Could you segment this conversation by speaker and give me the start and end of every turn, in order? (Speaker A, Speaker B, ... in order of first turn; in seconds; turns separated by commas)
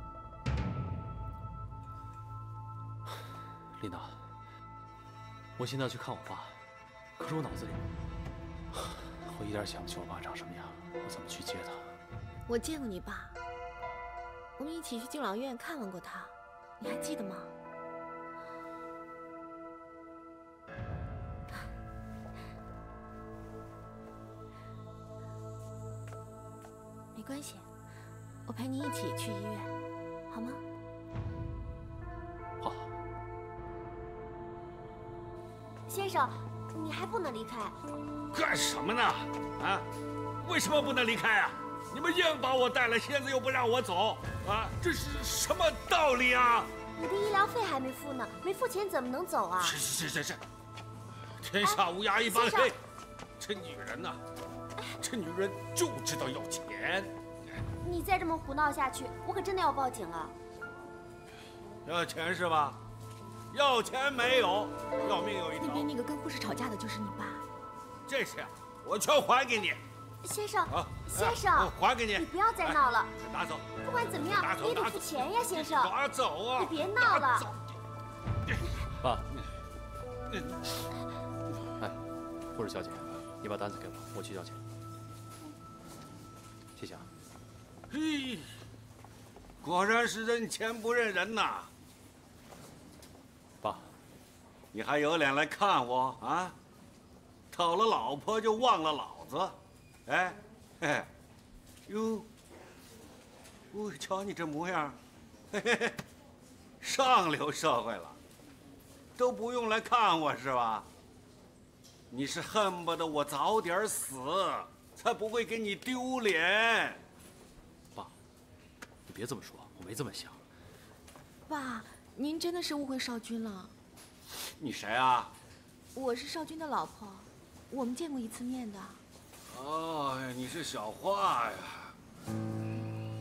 Speaker A: 3.8-4.2, Speaker A: 5.6-6.6, Speaker A: 7.2-7.9, Speaker A: 8.7-11.9, Speaker B: 12.5-13.3, Speaker B: 14.6-17.5, Speaker B: 27.1-27.6, Speaker B: 28.5-29.7, Speaker B: 30.3-30.6, Speaker A: 32.6-32.9, Speaker C: 35.9-37.8, Speaker D: 38.3-39.9, Speaker D: 40.4-46.7, Speaker C: 47.0-49.8, Speaker D: 49.6-50.4, Speaker D: 51.4-52.8, Speaker C: 51.6-52.7, Speaker D: 53.4-54.2, Speaker D: 55.0-57.1, Speaker C: 57.8-60.4, Speaker D: 61.9-62.8, Speaker D: 63.5-65.9, Speaker B: 65.6-67.4, Speaker D: 68.1-69.8, Speaker C: 70.2-73.2, Speaker D: 70.7-77.5, Speaker C: 73.8-76.0, Speaker C: 76.6-77.5, Speaker A: 79.0-79.3, Speaker A: 82.5-84.6, Speaker A: 86.8-87.1, Speaker D: 87.9-88.5, Speaker D: 89.6-91.7, Speaker A: 93.6-93.9, Speaker D: 94.7-96.6, Speaker D: 97.5-101.1, Speaker D: 101.9-102.3, Speaker D: 103.7-105.0, Speaker D: 105.5-106.0, Speaker D: 106.8-108.2, Speaker D: 109.2-110.9, Speaker D: 112.1-117.0, Speaker A: 119.1-120.4, Speaker B: 121.5-123.7, Speaker D: 124.6-125.3, Speaker B: 126.0-129.0, Speaker D: 129.5-131.9